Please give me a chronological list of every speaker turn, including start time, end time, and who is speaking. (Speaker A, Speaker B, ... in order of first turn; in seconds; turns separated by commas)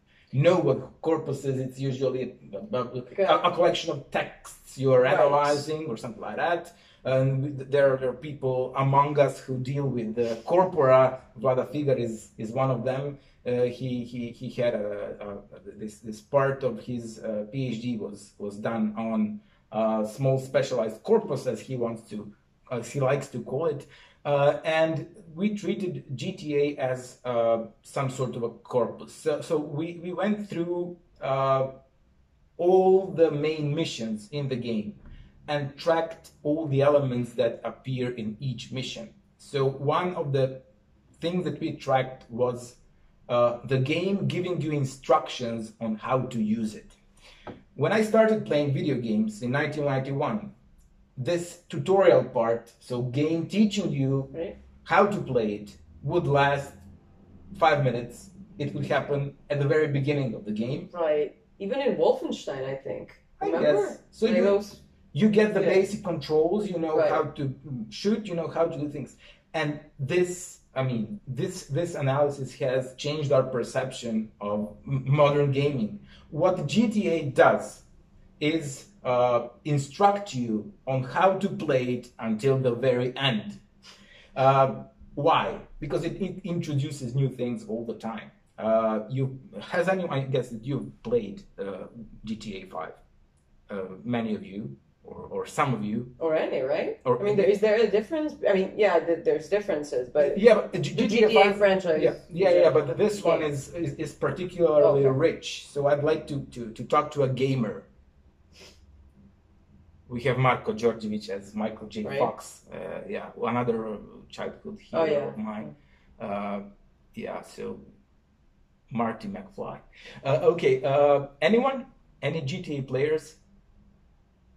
Speaker A: 0.3-31.7, Speaker B: 3.1-3.4, Speaker B: 5.0-5.6, Speaker A: 32.6-40.6, Speaker A: 41.2-46.9, Speaker A: 47.7-50.5, Speaker A: 51.2-56.8, Speaker A: 57.5-60.9, Speaker B: 60.9-64.8, Speaker A: 63.4-64.6, Speaker A: 65.1-77.8, Speaker B: 66.9-67.2, Speaker A: 78.4-83.6, Speaker A: 84.3-93.0, Speaker A: 93.7-96.1, Speaker B: 96.2-100.4, Speaker A: 97.0-97.5, Speaker A: 100.2-107.9, Speaker B: 100.9-103.5, Speaker B: 104.8-105.2, Speaker A: 110.1-117.9, Speaker B: 112.0-112.3, Speaker B: 114.9-115.7, Speaker A: 118.9-123.4